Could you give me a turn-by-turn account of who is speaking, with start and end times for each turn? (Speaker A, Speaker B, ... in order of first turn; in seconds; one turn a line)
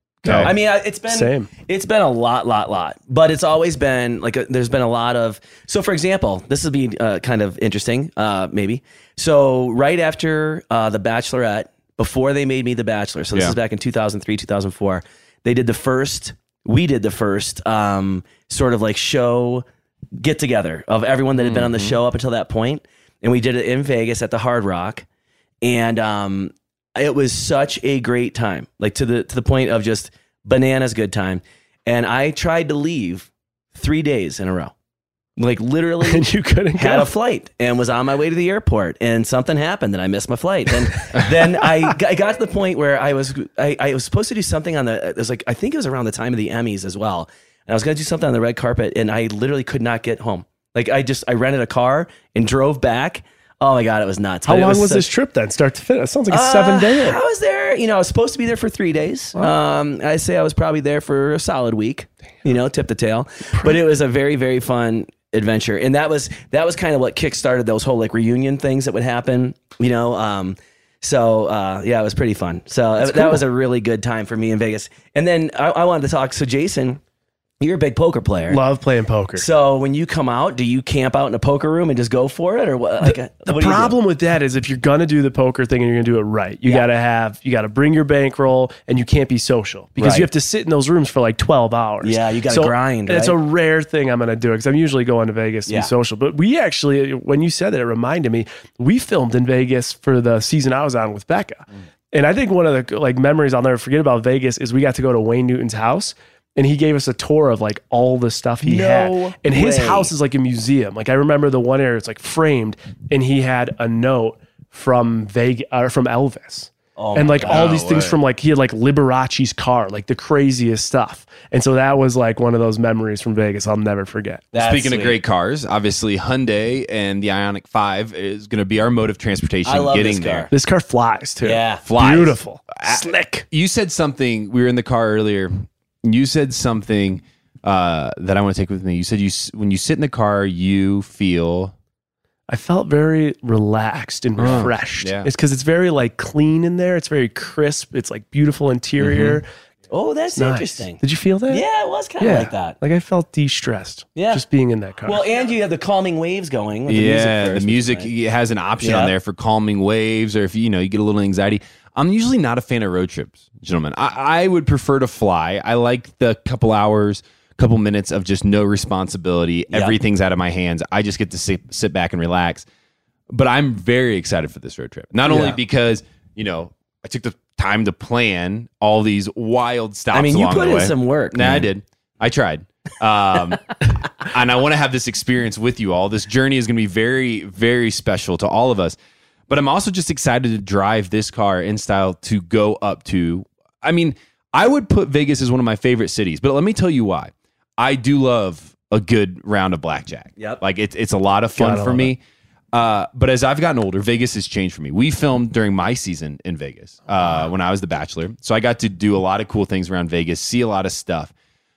Speaker A: 0.2-0.5
Speaker B: 0.2-0.5
Speaker C: 0.3-19.6
Speaker A: 1.1-1.5
Speaker C: 20.1-25.0
Speaker B: 21.4-22.0
Speaker C: 25.6-34.7
Speaker C: 35.4-55.1
Speaker A: 36.0-37.1
Speaker A: 54.5-57.2
Speaker C: 56.3-77.0
Speaker A: 73.0-73.4
Speaker C: 77.6-78.6
Speaker A: 78.5-79.5
Speaker C: 79.4-83.9
Speaker A: 83.0-124.5
Speaker C: 90.0-90.3
Speaker C: 92.0-93.4
Speaker C: 108.6-110.1
Speaker C: 117.0-117.8
Speaker B: 117.4-118.2
Speaker C: 124.5-125.2
Speaker B: 124.5-130.5
Speaker C: 129.6-130.5
Speaker A: 130.5-133.4
Speaker C: 131.4-131.8
Speaker B: 131.8-141.7
Speaker A: 142.5-149.5
Speaker B: 144.4-145.3
Speaker B: 149.0-149.4
Speaker C: 149.9-152.8
Speaker A: 150.3-151.6
Speaker A: 152.2-155.2
Speaker C: 154.2-154.4
Speaker C: 155.0-158.1
Speaker B: 156.9-172.6
Speaker C: 158.8-159.1
Speaker C: 169.7-170.0
Speaker B: 173.3-189.0
Speaker C: 175.2-175.6
Speaker C: 180.1-181.7
Speaker B: 189.5-202.2
Speaker A: 201.6-202.1
Speaker B: 202.7-211.3